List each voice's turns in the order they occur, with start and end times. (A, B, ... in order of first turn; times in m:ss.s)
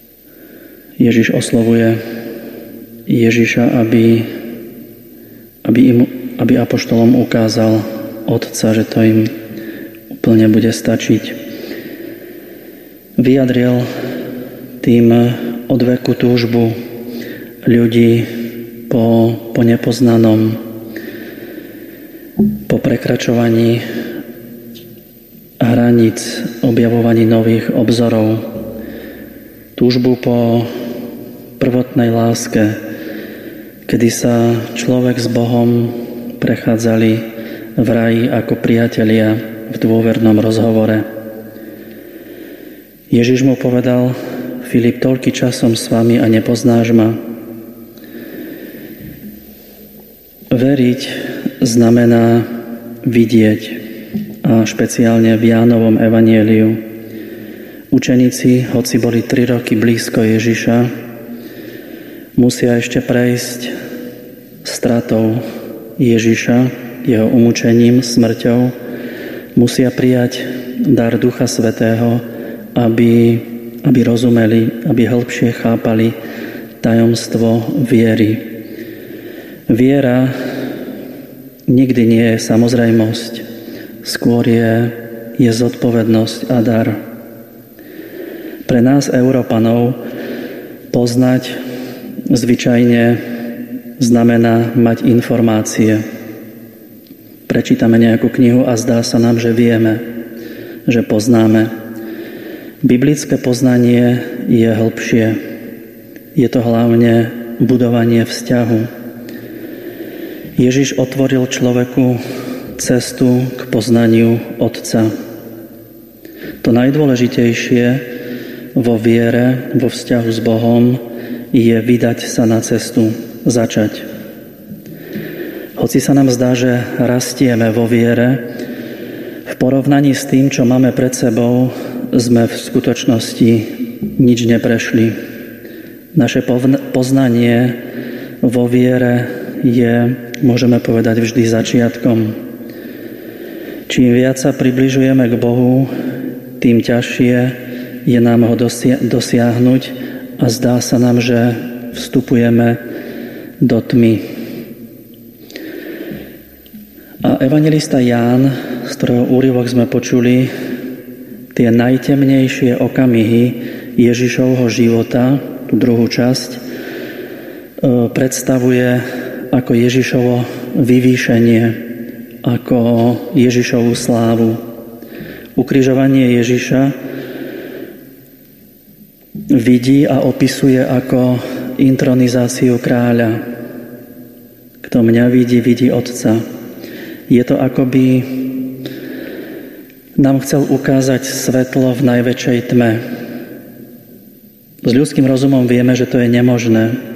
0:01.0-0:02.0 A
0:03.0-0:04.3 A
0:05.6-0:09.3 A
0:10.1-0:11.4 A
0:13.2-0:13.9 A
0:14.8-0:16.8 A
0:17.6-0:18.3 A
0:18.9-0:20.6 A
0:22.7-0:23.8 A
0:25.6-0:28.4 A
0:29.8-0:30.7 A
0:31.6-0:32.8 A
0:33.8-0:37.2 A
0:37.8-0:41.0 A
0:43.1-0:47.2 A
0:50.5-0:52.5 A
0:53.0-0:53.8 A
0:54.4-0:56.8 A
0:57.9-1:00.9 A
1:02.4-1:03.7 A
1:04.6-1:05.4 A
1:06.0-1:08.7 A
1:09.5-1:12.2 A
1:12.7-1:16.1 A
1:16.8-1:18.4 A
1:19.7-1:20.3 A
1:21.7-1:23.4 A
1:24.0-1:27.0 A
1:28.6-1:30.0 A
1:30.9-1:31.6 A
1:32.3-1:33.2 A
1:34.0-1:36.0 A
1:37.5-1:40.0 A
1:40.9-1:41.7 A
1:42.8-1:45.4 A
1:46.3-1:48.9 A
1:50.6-1:52.2 A
1:52.8-1:55.1 A
1:56.6-1:58.0 A
1:58.7-2:01.0 A
2:01.5-2:04.0 A
2:05.8-2:08.4 A
2:09.5-2:15.1 A
2:16.1-2:17.8 A
2:18.4-2:22.4 A
2:23.9-2:25.9 A
2:26.6-2:32.8 A
2:33.6-2:34.2 A
2:37.2-2:40.5 A
2:41.5-2:46.6 A
2:47.8-2:51.8 A
2:52.4-2:54.6 A
2:55.6-2:56.9 A
2:59.5-3:03.4 A
3:04.8-3:06.4 A
3:07.3-3:08.5 A
3:10.2-3:13.0 A
3:14.8-3:17.0 A